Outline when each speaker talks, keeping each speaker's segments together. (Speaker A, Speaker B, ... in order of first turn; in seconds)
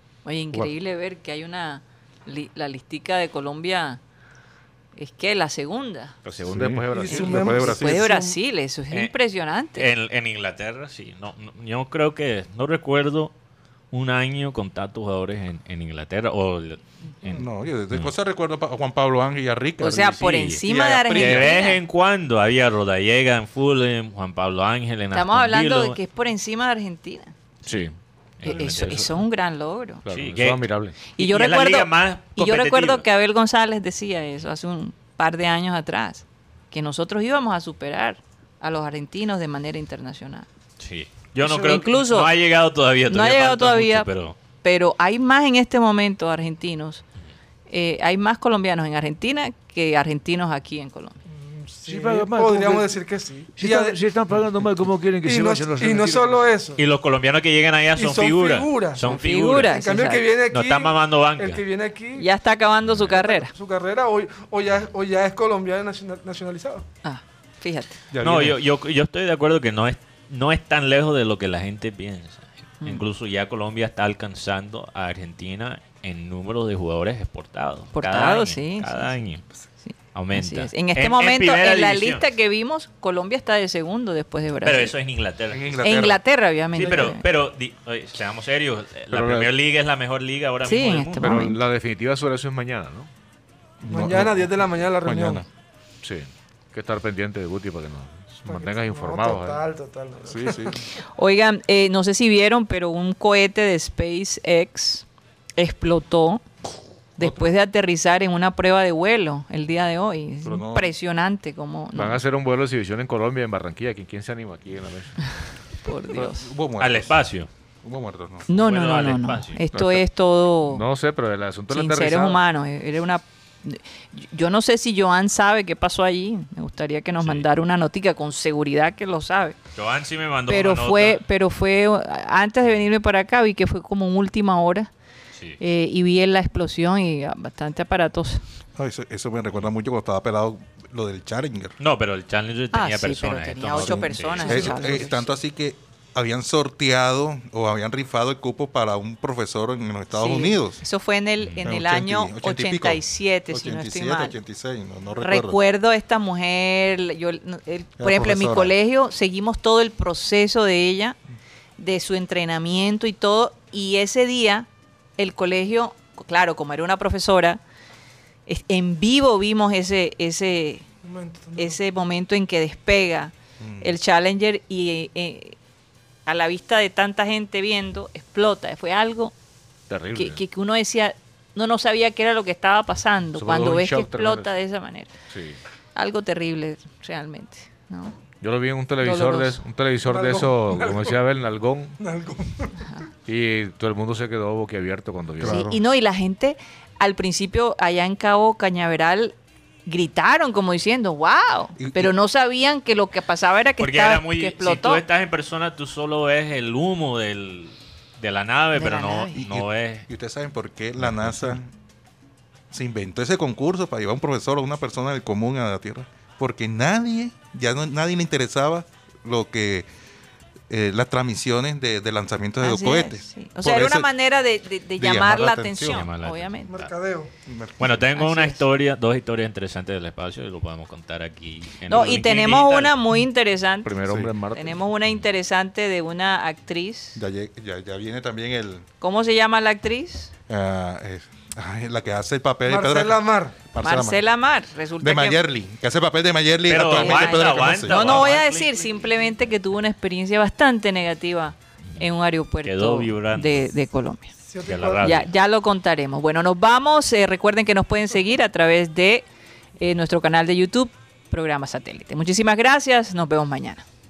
Speaker A: 0.2-4.0, 5.0-6.2, 7.6-9.9, 19.8-21.8, 25.1-27.3, 28.4-30.0, 31.2-40.5, 41.4-42.3, 43.1-44.1, 44.6-47.0, 47.7-51.2, 59.0-60.3, 62.1-63.5, 67.0-68.0, 77.9-79.1, 79.8-84.9, 85.8-87.2, 90.7-91.6, 101.2-106.4, 107.2-112.2, 115.8-116.5, 118.5-120.8, 121.7-129.6, 130.5-134.9, 135.6-138.4, 142.7-145.3, 150.2-154.3, 155.2-161.2, 161.8-167.6, 168.5-170.9, 171.6-175.6, 176.3-179.3, 180.2-185.1, 185.9-188.2, 189.0-189.6, 195.4-205.0, 208.7-209.5, 222.6-226.7, 228.1-228.6, 231.9-234.0, 234.5-237.2, 239.0-240.3, 243.8-245.4, 246.7-254.3, 255.0-259.3, 259.8-263.9
Speaker B: 6.2-7.8, 27.7-27.9, 28.5-29.1, 30.1-31.0, 54.3-54.8, 89.1-89.5, 91.2-93.1, 96.0-99.6, 111.9-115.2, 119.7-120.0, 120.7-122.4, 179.9-180.4, 183.3-184.5, 185.3-185.6, 188.4-192.0, 193.3-195.7, 233.8-234.8
Speaker C: 6.5-8.1, 17.3-21.6, 68.1-68.6, 85.5-86.2, 93.8-95.5, 100.2-100.8, 110.5-110.9, 116.1-117.2, 117.8-118.5, 138.8-141.8, 143.7-150.8, 151.6-155.6, 158.0-158.7, 173.6-173.9, 195.4-195.8, 201.8-202.1, 209.4-211.7, 212.7-219.9, 220.7-224.1, 225.0-226.0, 227.5-228.0, 234.1-234.3, 237.2-238.9, 240.5-244.2, 245.0-248.3
Speaker D: 6.9-8.3, 51.3-54.0, 55.2-56.8, 58.0-62.3, 63.0-66.8, 86.8-87.1, 93.9-95.5, 98.5-100.9, 171.0-171.7, 190.0-191.2, 192.0-193.0, 226.7-227.3, 242.7-243.6, 254.5-255.2
Speaker E: 9.8-13.3, 13.9-18.1, 20.0-26.0, 28.4-29.0, 30.1-33.0, 40.8-44.4, 56.8-59.8, 60.5-61.6, 62.9-63.1, 68.2-79.4, 80.1-82.2, 84.6-86.0, 86.7-91.5, 116.8-117.5, 118.5-119.6, 127.2-127.5, 129.8-131.2, 141.8-144.9, 151.4-151.7, 203.8-210.1, 211.0-211.5, 225.8-226.9, 227.8-232.9, 246.7-248.9, 252.6-253.6, 254.6-255.3
Speaker F: 51.9-52.9, 53.6-56.5